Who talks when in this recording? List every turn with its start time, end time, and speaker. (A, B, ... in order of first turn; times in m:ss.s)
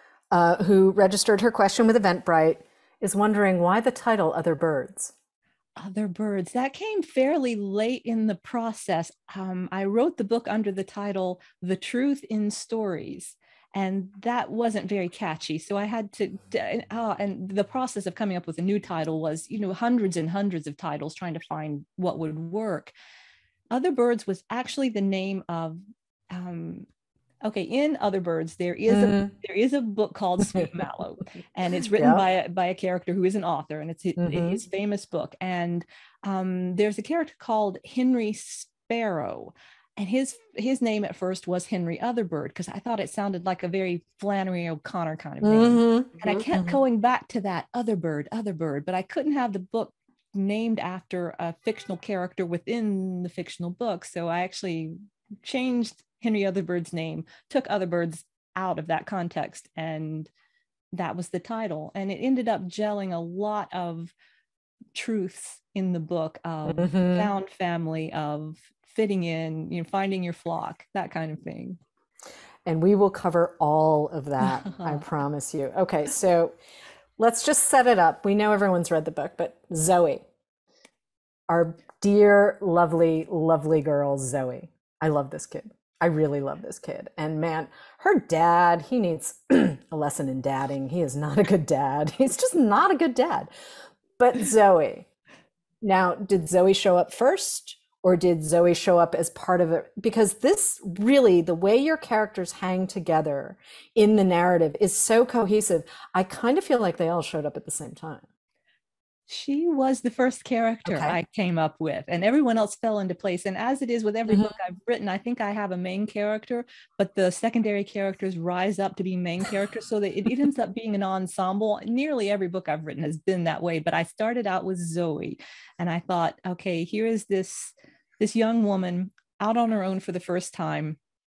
0:00.3-0:05.1 A
0:05.8-0:22.9 B
0:23.7-0:25.8 B
0:26.3-0:26.9 B
0:27.4-1:00.3 B
0:28.9-0:29.3 A
0:32.0-0:32.2 A
0:34.2-0:34.6 A
0:45.4-0:46.8 A
1:00.9-1:04.1 B
1:04.9-1:11.8 B
1:06.7-1:07.3 A
1:12.6-1:16.5 A
1:14.5-1:15.0 B
1:17.2-1:20.2 A
1:21.5-1:33.5 A
1:34.2-1:35.1 A
1:35.8-1:48.2 A
1:49.3-2:11.0 B
1:50.9-1:51.2 A